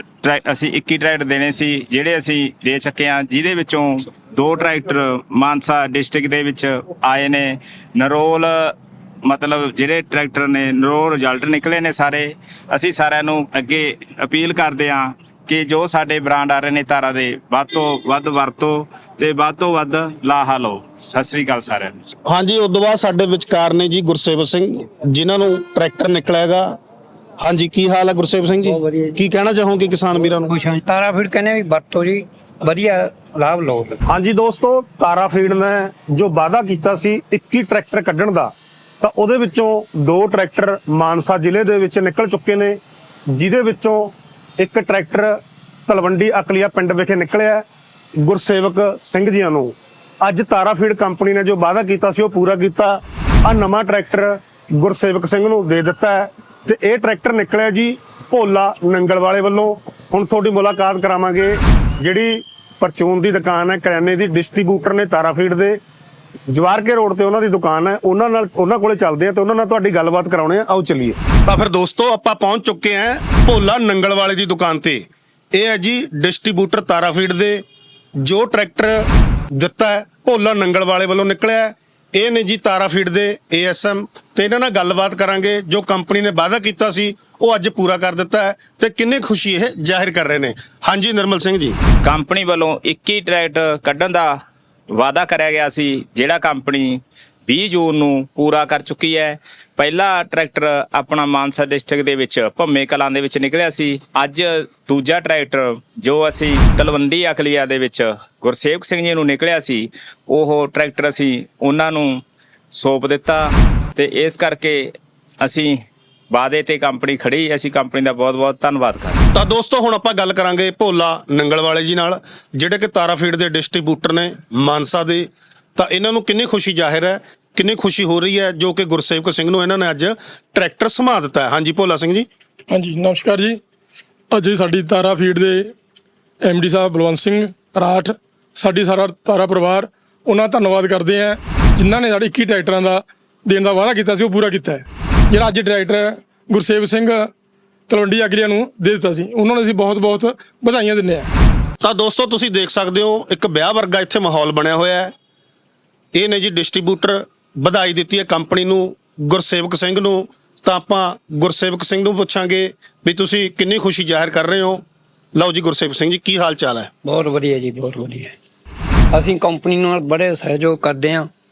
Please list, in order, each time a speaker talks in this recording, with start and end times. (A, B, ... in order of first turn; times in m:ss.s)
0:00.2-0:08.7 A
0:09.2-0:22.0 A
0:22.3-0:26.8 B
0:27.4-0:30.5 B
0:28.6-0:29.2 C
0:30.1-0:34.0 C
0:34.1-0:42.8 B
0:43.3-0:45.4 B
0:45.9-0:47.6 B
0:48.2-1:05.8 B
1:06.5-1:15.0 B
1:15.5-1:17.6 B
1:18.2-1:19.0 B
1:19.6-1:31.8 B
1:32.0-1:34.4 A
1:34.9-1:52.2 A
1:52.7-1:55.8 A
1:56.3-1:59.2 A
1:59.3-2:12.3 B
2:12.7-2:13.6 D
2:14.3-2:15.7 D
2:16.4-2:27.3 D
2:27.9-2:31.3 D
2:31.8-2:35.1 B
2:36.1-2:44.8 B
2:45.3-2:46.9 B
2:47.0-2:48.4 C
2:49.1-2:51.3 C